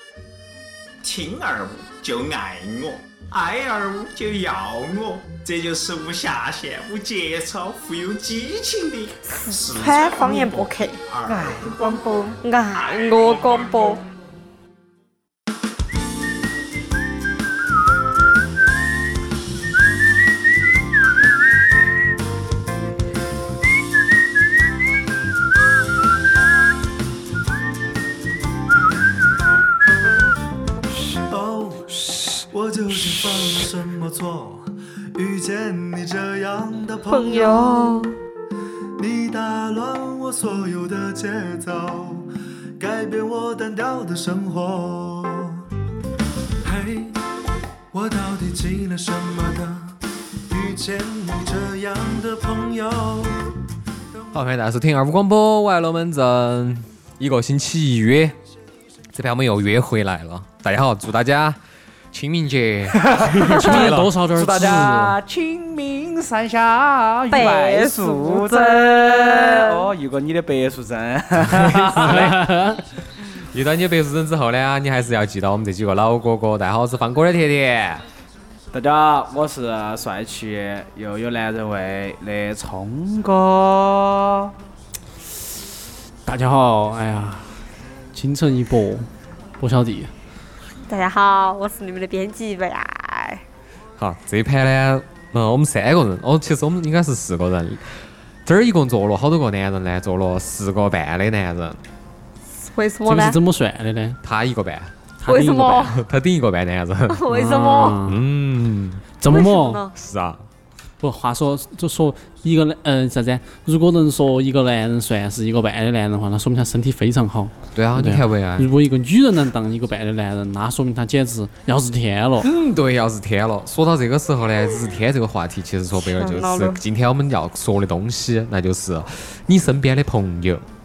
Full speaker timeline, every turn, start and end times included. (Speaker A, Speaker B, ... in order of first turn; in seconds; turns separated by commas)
Speaker A: 1.0-12.1, Speaker B: 9.3-11.0, Speaker C: 11.3-12.3, Speaker B: 12.3-14.0, Speaker A: 12.9-13.8, Speaker D: 31.1-37.9, Speaker B: 37.1-38.1, Speaker D: 39.0-45.6, Speaker D: 46.6-47.2, Speaker D: 47.9-53.4, Speaker E: 54.3-58.4, Speaker E: 59.1-61.6, Speaker E: 62.1-64.1, Speaker C: 62.9-63.4, Speaker F: 63.4-65.2, Speaker B: 63.6-63.9, Speaker C: 64.3-72.5, Speaker B: 67.3-69.9, Speaker F: 71.9-72.8, Speaker E: 73.5-78.0, Speaker C: 78.7-84.5, Speaker F: 86.3-87.5, Speaker F: 88.1-89.1, Speaker F: 89.6-90.1, Speaker B: 90.9-93.4, Speaker E: 94.0-97.9, Speaker E: 98.5-101.8, Speaker B: 102.6-103.4, Speaker F: 103.0-104.2, Speaker E: 104.2-104.9, Speaker F: 105.2-106.0, Speaker B: 105.3-106.0, Speaker E: 105.9-107.2, Speaker B: 107.1-108.0, Speaker F: 107.3-108.2, Speaker E: 108.0-109.1, Speaker F: 109.2-109.8, Speaker B: 109.3-109.9, Speaker E: 109.9-110.4, Speaker F: 111.0-122.5, Speaker E: 117.8-118.7, Speaker E: 122.4-130.6, Speaker B: 126.0-126.8